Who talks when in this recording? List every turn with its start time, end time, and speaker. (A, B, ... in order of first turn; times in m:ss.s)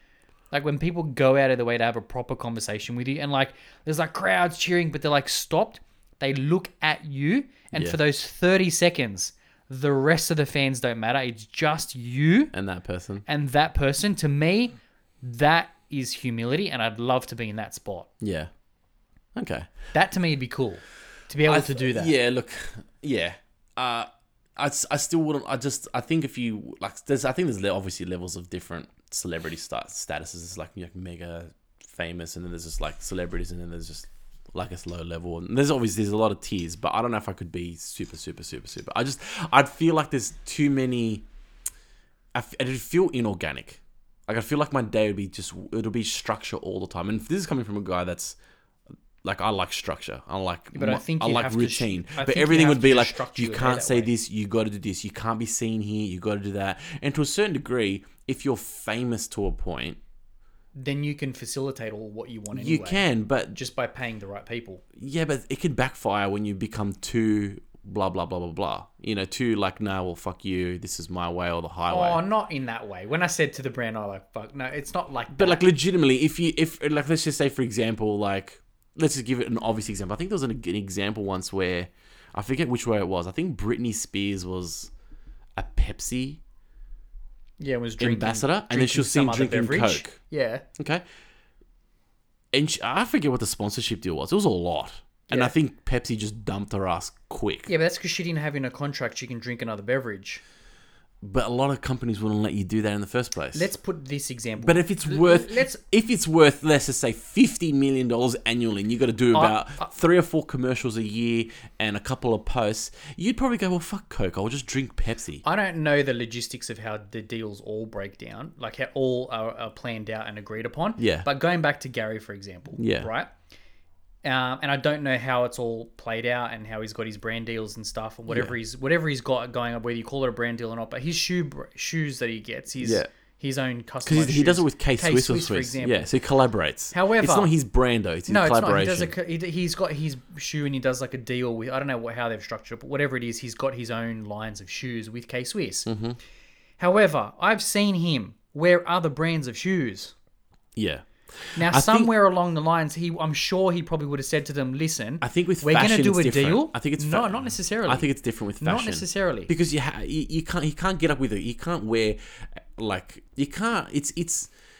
0:00.5-0:12.5 A
0:12.5-0:13.2 B
0:13.2-0:18.1 A
0:18.2-0:18.5 B
0:19.3-0:19.7 B
0:19.9-0:22.1 A
0:21.4-0:41.2 B
0:42.3-0:48.4 B
0:49.2-1:00.0 B
0:50.7-0:54.1 A
1:00.8-1:04.8 A
1:02.5-1:03.6 B
1:05.0-1:12.2 B
1:11.9-1:15.6 A
1:15.3-1:24.9 B
1:25.6-1:26.4 B
1:27.6-1:30.6 A
1:28.0-1:30.2 B
1:30.8-1:31.0 B
1:32.5-1:37.7 B
1:37.7-1:40.4 A
1:41.2-1:43.7 B
1:43.5-1:45.8 A
1:44.6-1:55.4 B
1:49.3-1:49.9 A
1:55.4-2:03.3 A
2:01.0-2:01.3 B
2:02.8-2:03.1 B
2:04.2-2:16.1 A
2:08.3-2:08.6 B
2:12.8-2:13.1 B
2:14.0-2:19.1 B
2:16.9-2:17.5 A
2:18.3-2:25.9 A
2:25.8-2:26.2 B
2:26.8-2:30.1 A
2:30.8-2:32.1 B
2:31.6-2:39.5 A
2:35.2-2:42.2 B
2:42.8-2:44.5 B